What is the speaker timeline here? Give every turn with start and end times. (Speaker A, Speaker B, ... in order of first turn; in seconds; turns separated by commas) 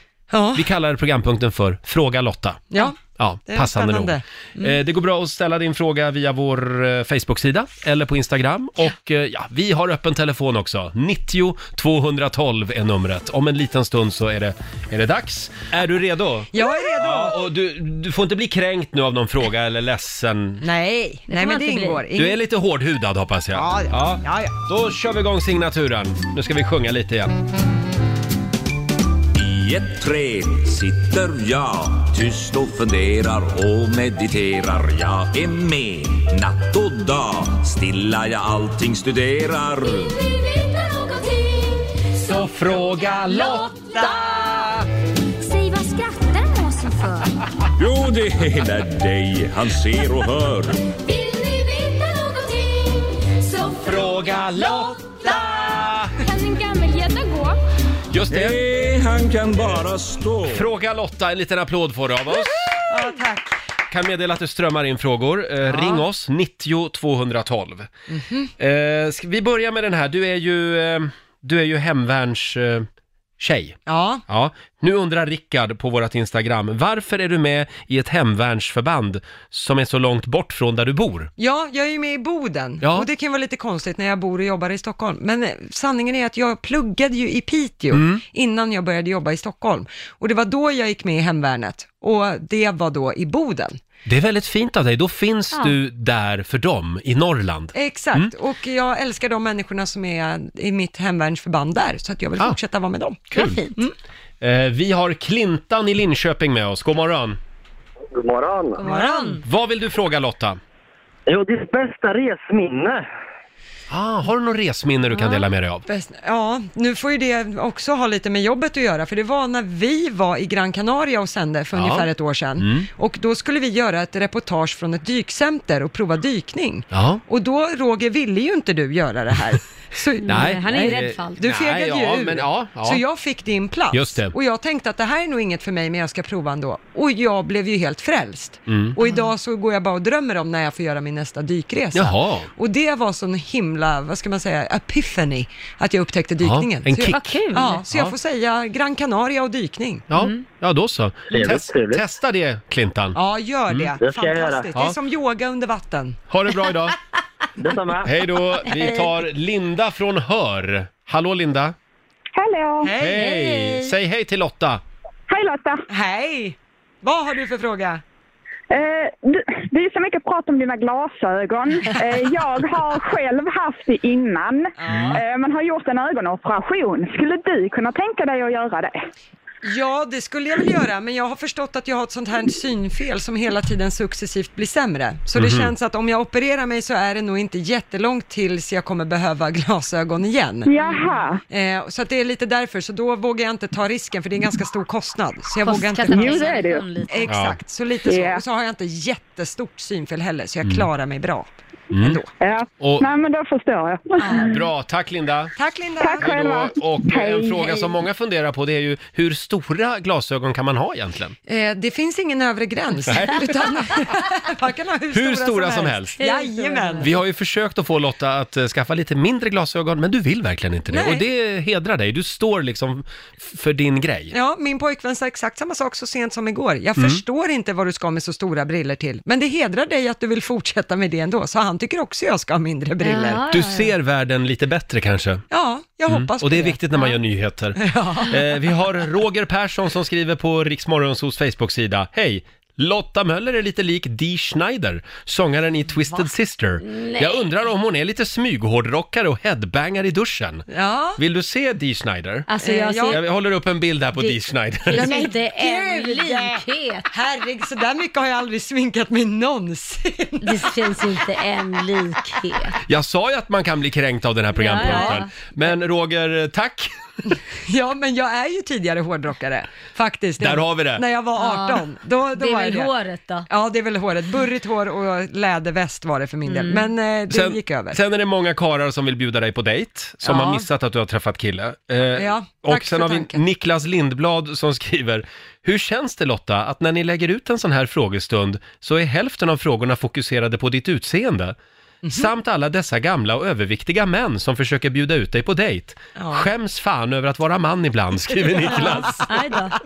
Speaker A: 0.3-0.6, Speaker B: 0.5-20.6, Speaker A: 2.7-4.8, Speaker A: 16.5-17.4, Speaker A: 20.6-22.4, Speaker C: 21.3-22.0, Speaker B: 22.1-27.3, Speaker A: 23.5-24.5, Speaker D: 29.3-40.2, Speaker E: 40.2-42.4, Speaker B: 42.2-44.8, Speaker E: 43.1-44.5, Speaker E: 45.4-47.3, Speaker D: 47.8-50.8, Speaker E: 51.0-57.6, Speaker B: 53.8-56.1, Speaker B: 58.1-58.6, Speaker D: 58.3-60.6, Speaker B: 60.5-62.8, Speaker A: 62.9-63.5, Speaker B: 63.9-67.9, Speaker A: 65.7-66.0, Speaker A: 68.1-68.5, Speaker B: 68.6-72.8, Speaker B: 73.4-81.3, Speaker A: 73.9-74.2, Speaker A: 81.4-93.8, Speaker B: 82.8-83.1, Speaker B: 87.9-88.2, Speaker B: 94.0-98.3, Speaker A: 97.7-103.9, Speaker B: 103.3-103.6, Speaker C: 103.3-103.8, Speaker B: 104.4-107.4, Speaker F: 108.1-108.8, Speaker C: 108.8-109.4, Speaker A: 108.8-109.4, Speaker B: 109.4-110.6, Speaker F: 111.3-113.0, Speaker B: 113.9-115.8, Speaker C: 115.1-115.4, Speaker A: 115.9-150.0, Speaker B: 121.7-122.9, Speaker B: 126.9-127.2, Speaker C: 130.2-131.4, Speaker B: 130.3-133.0, Speaker B: 133.9-134.3, Speaker B: 138.7-139.0, Speaker C: 139.0-139.3, Speaker B: 141.9-142.5, Speaker B: 146.4-147.4, Speaker C: 147.1-147.8, Speaker B: 147.9-148.1, Speaker B: 150.1-153.2, Speaker C: 150.1-150.4, Speaker F: 151.3-152.0, Speaker A: 153.1-156.2, Speaker F: 154.0-154.7, Speaker B: 156.3-156.9, Speaker F: 157.6-158.1, Speaker B: 158.0-161.8, Speaker G: 162.3-162.9, Speaker A: 162.8-163.2, Speaker B: 163.0-164.8, Speaker C: 163.1-163.9, Speaker G: 165.3-165.8, Speaker A: 165.9-168.0, Speaker G: 168.7-179.0, Speaker A: 174.8-175.2, Speaker B: 174.8-175.2, Speaker A: 179.6-190.7, Speaker B: 185.3-185.7, Speaker G: 190.7-191.4, Speaker A: 191.5-202.3, Speaker C: 195.6-197.3, Speaker G: 196.1-196.8, Speaker B: 197.3-197.6, Speaker G: 198.0-198.4, Speaker B: 201.9-202.2, Speaker G: 202.4-204.6, Speaker B: 202.8-203.1, Speaker A: 204.2-204.5, Speaker B: 204.4-205.5, Speaker A: 205.6-206.3, Speaker G: 206.0-208.0, Speaker B: 206.2-211.3, Speaker A: 211.5-217.1, Speaker B: 213.1-213.4, Speaker B: 215.1-216.2, Speaker C: 216.2-217.1, Speaker B: 217.0-224.3, Speaker A: 220.9-221.2, Speaker A: 224.3-233.4, Speaker C: 233.0-233.9, Speaker B: 233.5-235.4, Speaker A: 235.5-236.8, Speaker B: 236.1-252.5, Speaker A: 237.8-238.4, Speaker C: 246.8-247.4, Speaker A: 250.7-251.2, Speaker C: 252.5-253.2, Speaker A: 252.6-253.2, Speaker B: 253.1-255.1, Speaker C: 254.2-257.1, Speaker A: 254.9-260.7, Speaker C: 260.4-262.8, Speaker B: 262.9-266.9, Speaker C: 264.6-265.3, Speaker A: 264.8-265.2, Speaker A: 267.3-272.9, Speaker B: 270.4-271.0, Speaker C: 271.4-273.5, Speaker A: 273.5-278.0, Speaker C: 276.4-276.9, Speaker B: 277.3-291.6, Speaker A: 280.2-280.6, Speaker A: 282.1-283.4, Speaker A: 292.0-292.3, Speaker B: 292.1-299.2, Speaker A: 296.1-296.5, Speaker A: 298.6-299.3, Speaker C: 298.7-299.8